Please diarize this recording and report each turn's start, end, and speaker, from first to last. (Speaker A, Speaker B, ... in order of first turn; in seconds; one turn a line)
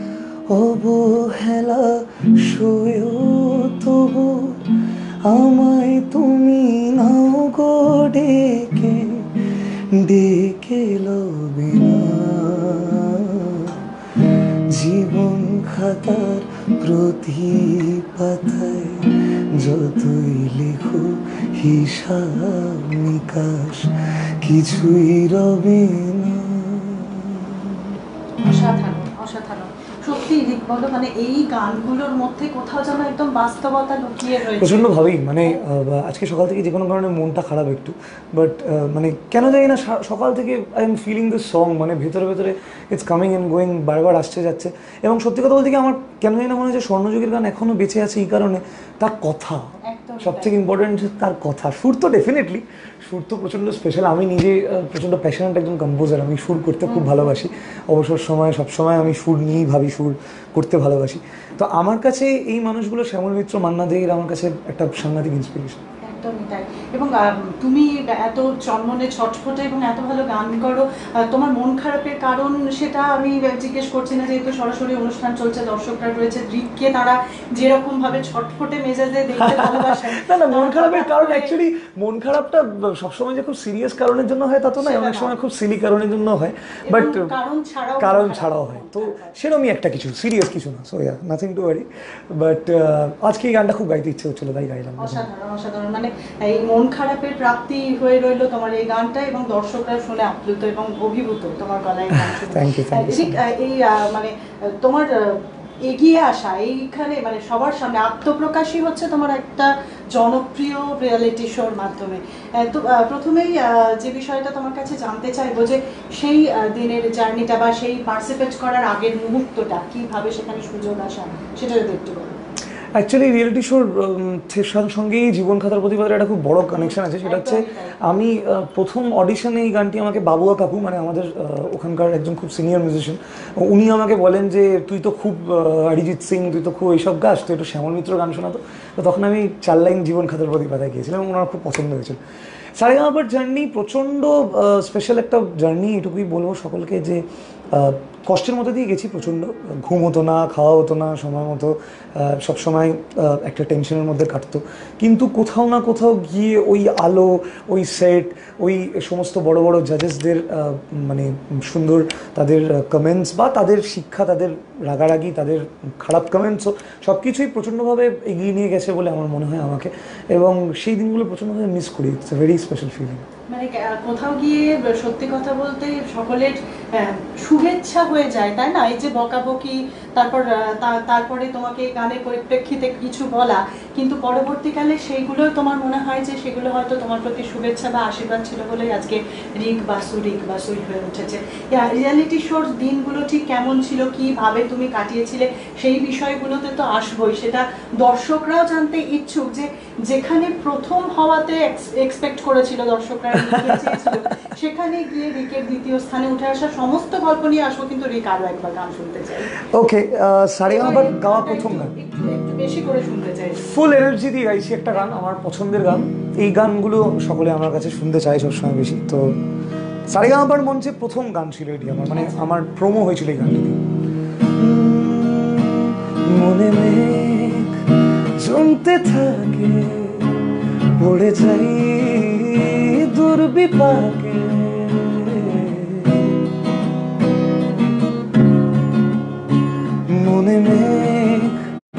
Speaker A: 0.5-4.7
Speaker A: 5.2-9.4
Speaker A: 9.9-28.0
Speaker B: 28.4-34.9
Speaker A: 34.6-49.6
Speaker B: 49.9-50.5
Speaker A: 50.2-65.8
Speaker B: 56.8-57.5
Speaker B: 66.0-81.5
Speaker A: 79.4-87.3
Speaker B: 84.8-85.3
Speaker B: 86.8-89.3
Speaker A: 88.0-95.2
Speaker B: 95.0-122.3
Speaker A: 102.1-103.4
Speaker A: 122.9-142.2
Speaker B: 126.8-128.0
Speaker A: 142.7-173.2
Speaker B: 173.5-209.6
Speaker A: 203.3-204.3
Speaker A: 209.6-211.9
Speaker B: 210.6-213.7
Speaker A: 213.6-219.4
Speaker A: 220.1-223.8
Speaker B: 222.1-222.5
Speaker A: 224.5-230.4
Speaker A: 231.0-236.4
Speaker A: 240.1-241.6